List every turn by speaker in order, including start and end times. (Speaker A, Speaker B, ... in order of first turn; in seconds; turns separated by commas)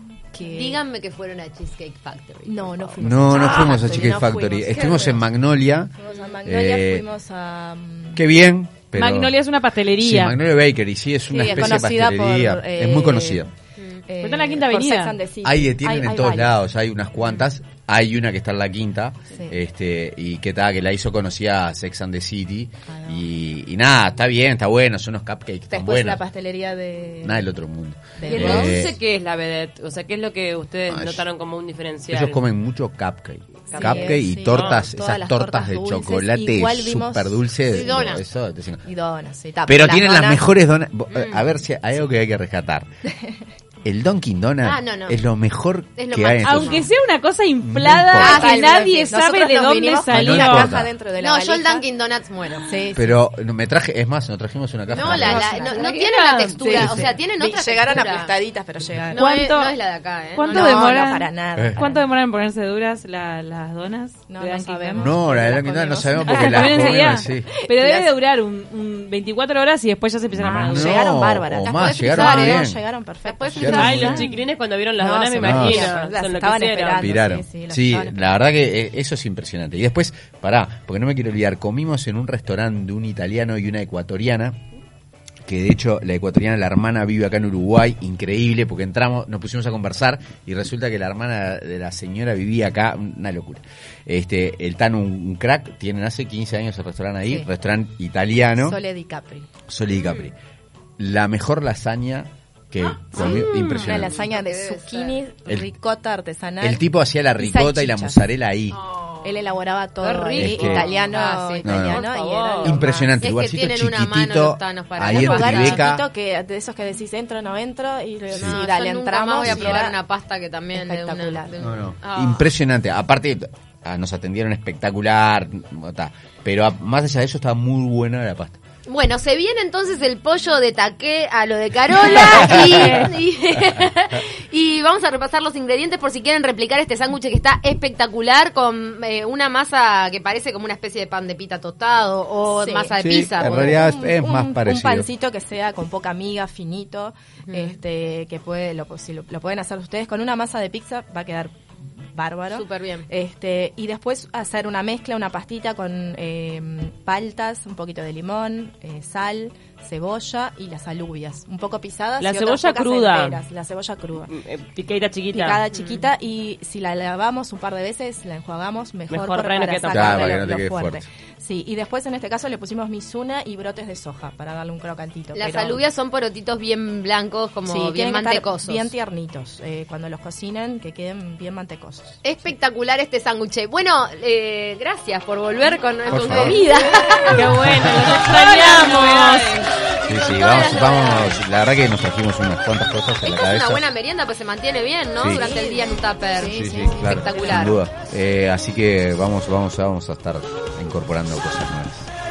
Speaker A: 0.3-0.8, Speaker B: 0.4-3.0, Speaker A: 2.5-5.3, Speaker C: 3.0-7.0, Speaker D: 3.4-3.7, Speaker A: 6.0-8.2, Speaker C: 8.2-9.3, Speaker D: 8.9-10.3, Speaker C: 10.0-13.5, Speaker A: 11.3-13.5, Speaker B: 13.8-14.1, Speaker A: 14.1-16.5, Speaker D: 14.2-15.2, Speaker C: 15.4-26.2, Speaker A: 22.9-23.2, Speaker A: 25.7-27.5, Speaker C: 27.2-29.0, Speaker A: 28.2-28.9, Speaker E: 28.3-32.4, Speaker B: 28.3-28.7, Speaker C: 30.9-31.3, Speaker C: 32.1-38.8, Speaker A: 33.7-37.9, Speaker E: 33.7-34.8, Speaker B: 37.7-38.2, Speaker A: 38.8-40.5, Speaker C: 39.7-42.9, Speaker B: 41.1-41.5, Speaker C: 43.8-46.9, Speaker B: 44.6-45.2, Speaker B: 46.0-46.8, Speaker D: 46.4-50.8, Speaker C: 47.6-48.5, Speaker B: 48.2-48.9, Speaker A: 48.2-51.9, Speaker C: 50.1-50.9, Speaker B: 51.2-52.7, Speaker D: 52.5-52.9, Speaker A: 52.7-53.2, Speaker C: 53.0-55.6, Speaker B: 54.9-58.4, Speaker A: 54.9-56.0, Speaker D: 55.7-56.7, Speaker A: 56.5-59.3, Speaker C: 56.7-57.2, Speaker B: 59.1-61.0, Speaker D: 59.1-59.8, Speaker D: 60.4-71.0, Speaker A: 60.5-62.1, Speaker C: 61.6-61.8, Speaker A: 64.3-68.1, Speaker C: 65.0-67.5, Speaker C: 70.3-72.8, Speaker A: 70.5-74.3, Speaker B: 71.7-72.7, Speaker B: 73.2-74.2, Speaker C: 73.6-74.2, Speaker D: 73.7-74.4, Speaker E: 73.8-77.2, Speaker A: 75.0-78.3, Speaker C: 75.4-75.9, Speaker C: 77.0-84.6, Speaker C: 85.5-98.8, Speaker A: 98.6-99.5, Speaker C: 99.7-100.4, Speaker B: 99.9-100.3, Speaker C: 101.0-104.3, Speaker A: 103.1-106.8, Speaker E: 103.2-104.1, Speaker B: 104.1-105.2, Speaker C: 106.6-108.8, Speaker A: 107.4-108.2, Speaker B: 108.8-109.4, Speaker A: 109.2-113.2, Speaker B: 110.0-112.6, Speaker C: 110.4-110.9, Speaker C: 111.6-112.1, Speaker E: 112.2-112.8, Speaker C: 112.6-116.1, Speaker B: 113.2-115.9, Speaker A: 115.0-120.0, Speaker B: 118.3-122.5, Speaker C: 118.3-118.6, Speaker C: 119.4-119.8, Speaker A: 120.7-121.5, Speaker C: 121.6-128.6, Speaker B: 128.9-143.8, Speaker C: 132.3-133.0, Speaker A: 142.4-151.5, Speaker C: 143.0-145.1, Speaker B: 147.5-147.8, Speaker A: 152.2-164.3, Speaker B: 152.5-153.1, Speaker E: 162.2-163.4, Speaker E: 164.3-165.6, Speaker A: 165.3-175.8, Speaker B: 165.7-166.0, Speaker E: 169.1-170.4, Speaker C: 169.9-171.1, Speaker B: 175.3-178.9, Speaker A: 177.7-182.3, Speaker B: 182.2-187.5, Speaker C: 186.1-186.6, Speaker D: 186.4-189.7, Speaker E: 187.3-189.6, Speaker C: 187.7-188.1, Speaker B: 189.8-191.4, Speaker C: 190.1-193.8, Speaker B: 193.2-197.8, Speaker C: 195.2-195.5, Speaker A: 195.5-197.7, Speaker C: 196.4-202.1